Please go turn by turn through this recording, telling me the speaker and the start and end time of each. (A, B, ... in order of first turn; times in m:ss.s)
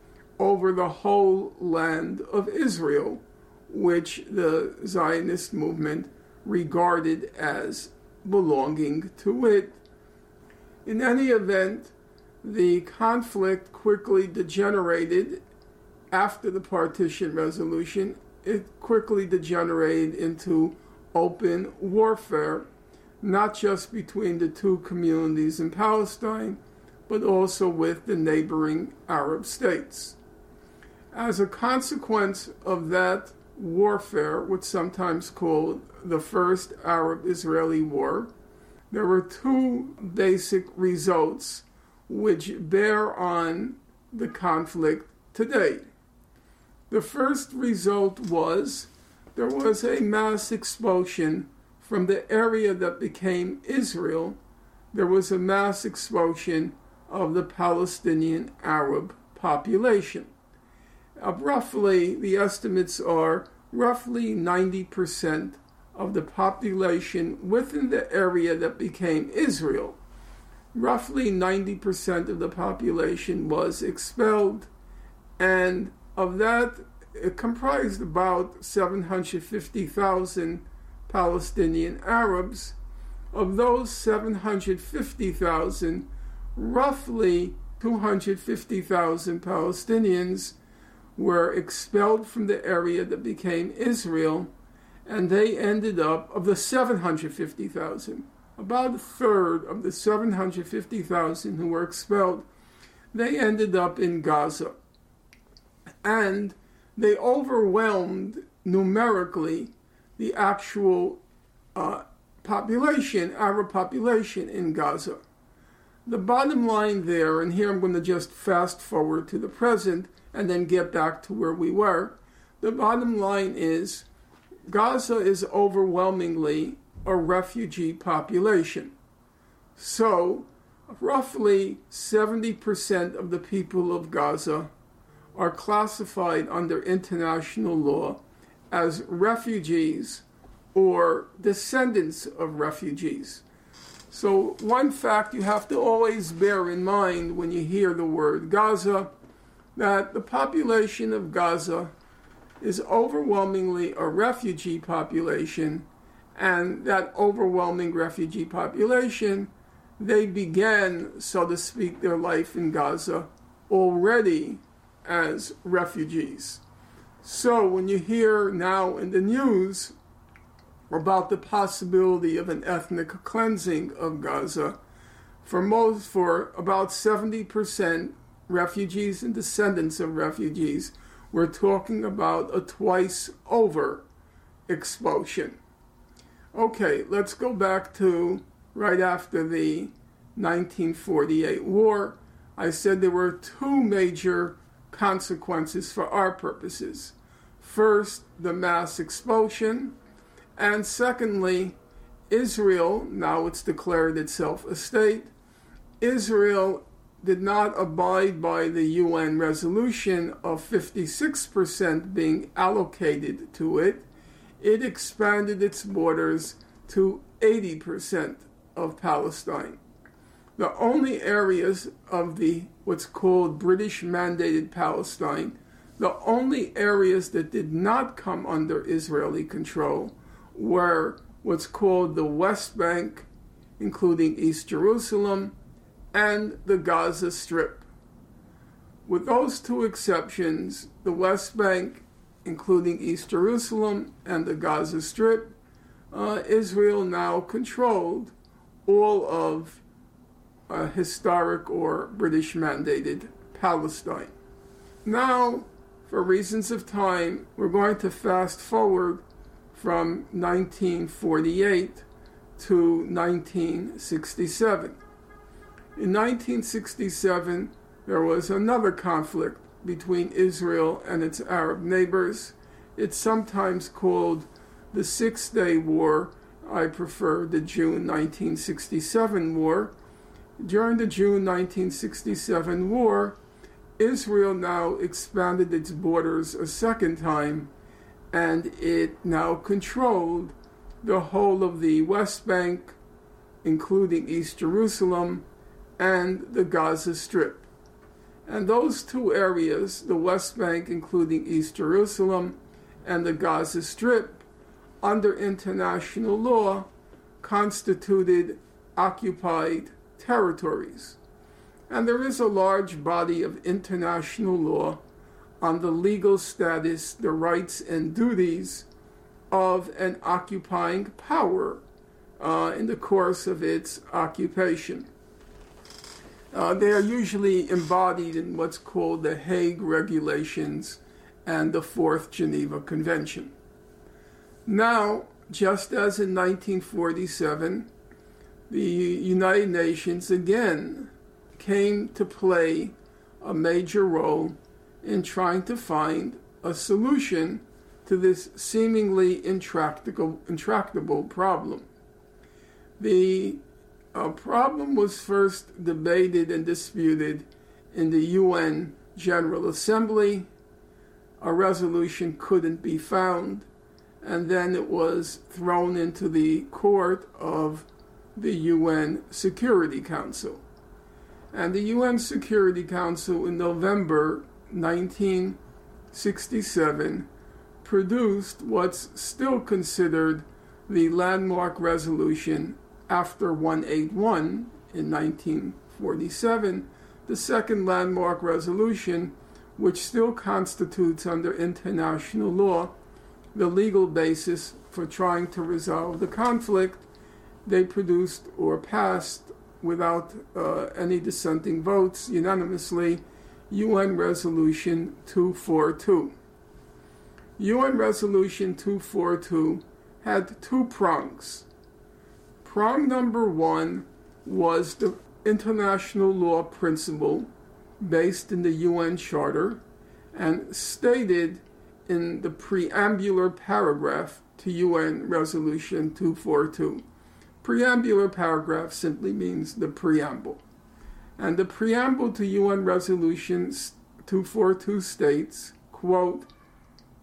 0:00.4-0:09.8 A
0:10.8-0:15.4 A
0:16.1-0:22.7 A
0:23.2-0:30.2 A
0:31.1-0:38.3 A
0:38.9-0:45.9 A
0:46.9-0:54.4 A
0:54.9-1:00.3 A
1:01.2-1:10.0 A
1:10.7-1:14.7 A
1:15.4-1:22.8 A
1:23.3-1:30.6 A
1:31.2-1:34.5 A
1:35.0-1:42.5 A
1:43.1-1:44.7 A
1:46.0-1:51.2 A
1:51.7-1:55.2 A
1:56.0-2:04.1 A
2:04.7-2:08.9 A
2:09.8-2:14.7 A
2:15.3-2:23.4 A
2:24.1-2:29.1 A
2:29.8-2:31.9 A
2:32.6-2:46.6 A
2:47.2-2:49.9 A
2:50.9-2:54.8 A
2:55.4-3:04.0 A
3:04.7-3:05.6 A
3:06.5-3:20.0 A
3:20.6-3:21.8 A
3:22.3-3:25.3 A
3:26.0-3:34.0 A
3:34.6-3:39.8 A
3:40.6-3:53.3 A
3:53.8-3:55.5 A
3:56.1-3:57.9 A
3:59.1-4:05.5 A
4:06.1-4:08.3 A
4:08.8-4:09.8 A
4:10.7-4:14.3 A
4:15.0-4:22.0 A
4:22.6-4:25.0 A
4:26.0-4:39.9 A
4:40.6-4:43.4 A
4:44.0-4:47.7 A
4:48.3-4:53.0 A
4:53.6-4:55.4 A
4:56.0-4:57.7 A
4:58.4-5:04.4 A
5:05.0-5:06.9 A
5:07.4-5:11.2 A
5:11.9-5:15.0 A
5:15.6-5:18.9 A
5:19.5-5:21.8 A
5:22.4-5:25.1 A
5:26.5-5:33.5 A
5:34.6-5:37.9 A
5:38.7-5:51.9 A
5:53.0-5:53.6 A
5:54.1-6:00.5 A
6:01.4-6:03.7 A
6:04.2-6:10.6 A
6:11.5-6:15.6 A
6:16.1-6:17.3 A
6:17.8-6:32.9 A
6:33.5-6:37.0 A
6:37.6-6:46.3 A
6:47.6-6:51.7 A
6:52.6-6:57.5 A
6:58.0-6:59.8 A
7:00.3-7:07.0 A
7:07.6-7:10.6 A
7:11.4-7:16.5 A